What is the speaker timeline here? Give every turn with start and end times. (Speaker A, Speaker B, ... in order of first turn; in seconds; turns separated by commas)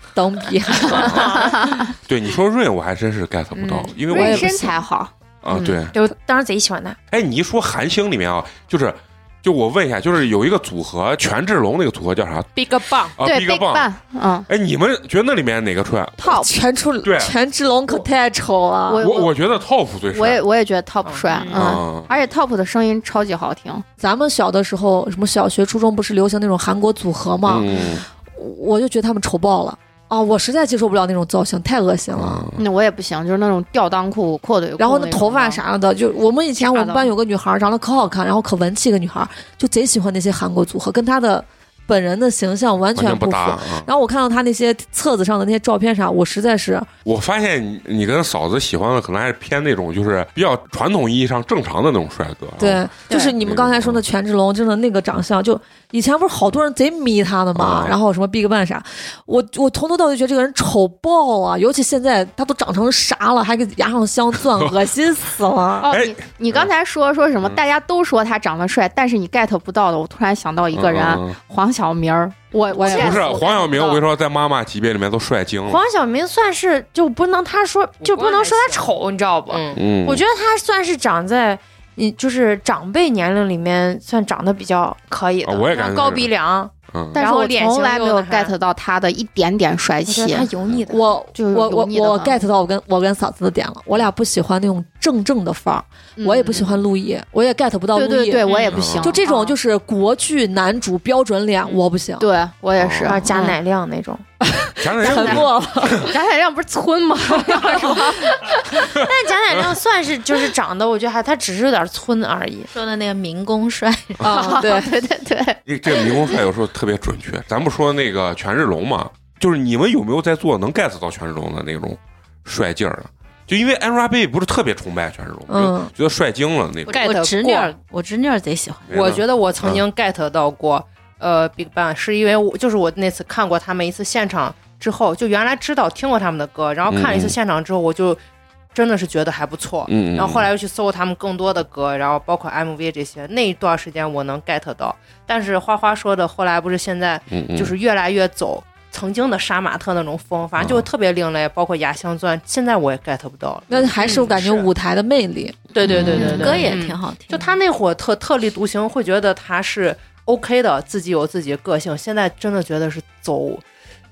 Speaker A: 0.2-1.4, Speaker B: 1.0-1.4, Speaker C: 1.1-1.4, Speaker D: 1.3-1.9, Speaker C: 2.1-4.5, Speaker B: 3.5-3.9, Speaker D: 4.0-5.8, Speaker A: 4.1-4.8, Speaker C: 5.4-6.0, Speaker B: 5.9-7.0, Speaker C: 7.1-12.6, Speaker E: 12.6-13.2, Speaker C: 13.2-13.9, Speaker D: 13.2-14.5, Speaker C: 14.5-16.3, Speaker A: 16.2-19.0, Speaker D: 16.2-16.5, Speaker C: 17.0-17.4, Speaker D: 18.9-19.4, Speaker C: 19.0-20.4, Speaker D: 20.1-23.8, Speaker E: 21.0-21.7, Speaker C: 21.5-22.1, Speaker A: 24.0-27.7, Speaker C: 27.5-28.0, Speaker A: 28.3-32.5, Speaker C: 32.1-32.6, Speaker D: 32.6-35.6, Speaker A: 34.8-46.9, Speaker D: 36.6-37.1, Speaker C: 43.0-43.9, Speaker C: 47.0-54.0, Speaker A: 52.6-65.9, Speaker C: 57.5-58.0, Speaker D: 65.8-74.0, Speaker C: 65.9-66.7, Speaker C: 70.7-71.4, Speaker A: 72.7-73.1, Speaker B: 72.8-73.4, Speaker C: 72.9-75.8, Speaker B: 75.7-88.5, Speaker E: 78.0-78.9, Speaker E: 79.5-79.8, Speaker C: 79.8-80.2, Speaker C: 85.4-86.3, Speaker C: 86.9-87.2, Speaker D: 87.1-90.5, Speaker E: 88.2-88.5, Speaker B: 90.0-91.1, Speaker A: 90.9-98.5, Speaker D: 91.3-92.5, Speaker D: 96.2-96.8, Speaker D: 97.9-99.6, Speaker F: 98.5-98.8, Speaker C: 98.7-99.1, Speaker A: 99.0-102.3, Speaker D: 102.2-103.6, Speaker C: 102.8-103.2, Speaker B: 103.1-104.2, Speaker A: 104.4-106.0, Speaker C: 104.8-106.0, Speaker D: 105.0-108.6, Speaker B: 108.8-112.7, Speaker C: 108.9-109.8, Speaker F: 112.7-114.2, Speaker A: 114.2-114.9, Speaker D: 114.2-116.4, Speaker C: 115.7-127.0, Speaker A: 125.5-125.9, Speaker F: 126.9-129.1, Speaker E: 126.9-127.7, Speaker C: 128.9-129.8, Speaker E: 128.9-138.2, Speaker C: 136.9-137.4, Speaker E: 138.7-154.7, Speaker C: 139.9-140.5, Speaker C: 147.3-147.8, Speaker C: 150.6-150.9, Speaker A: 153.7-155.6, Speaker E: 155.7-163.6, Speaker C: 155.8-156.6, Speaker F: 156.1-157.6